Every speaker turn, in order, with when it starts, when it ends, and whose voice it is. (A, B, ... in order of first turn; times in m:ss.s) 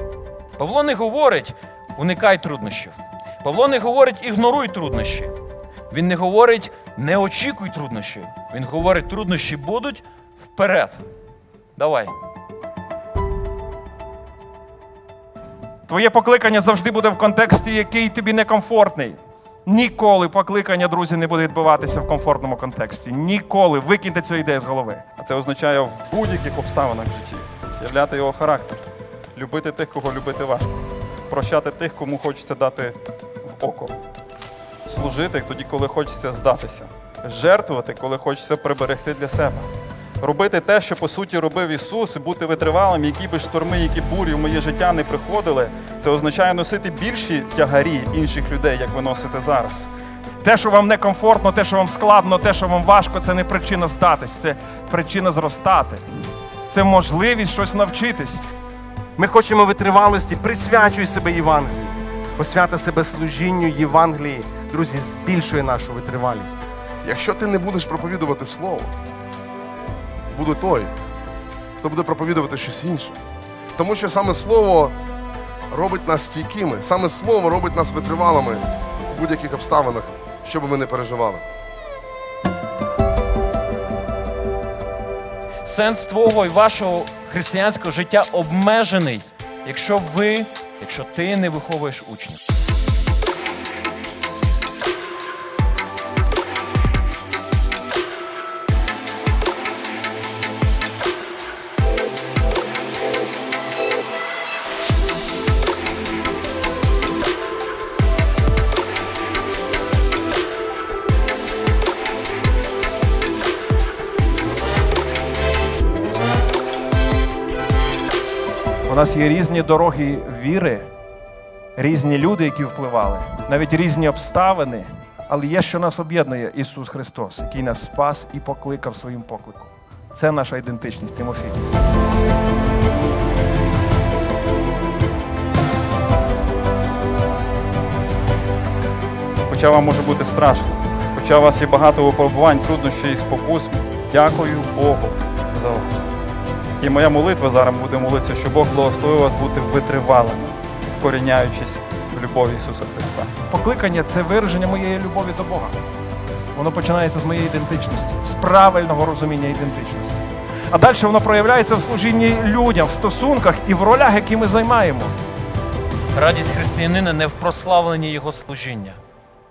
0:00.6-0:05.3 A
0:05.9-0:11.0 A
0:11.8-0:12.1 A
0:15.8-0:25.0 B
0:25.2-0:34.0 C
0:34.8-0:39.7 C
0:40.2-0:49.9 C
0:50.4-0:56.0 B
0:56.7-0:58.4 B
0:59.2-1:06.6 D
1:07.0-1:08.9 E
1:10.3-1:10.9 E
1:11.8-1:13.2 E
1:13.8-1:15.0 E
1:15.7-1:21.4 E
1:25.6-1:32.4 A
1:58.9-2:00.9 B
2:01.8-2:11.6 B
2:19.5-2:26.0 C
2:26.8-2:33.3 C
2:33.5-2:35.8 B
2:36.5-2:45.2 B
2:46.1-2:49.0 A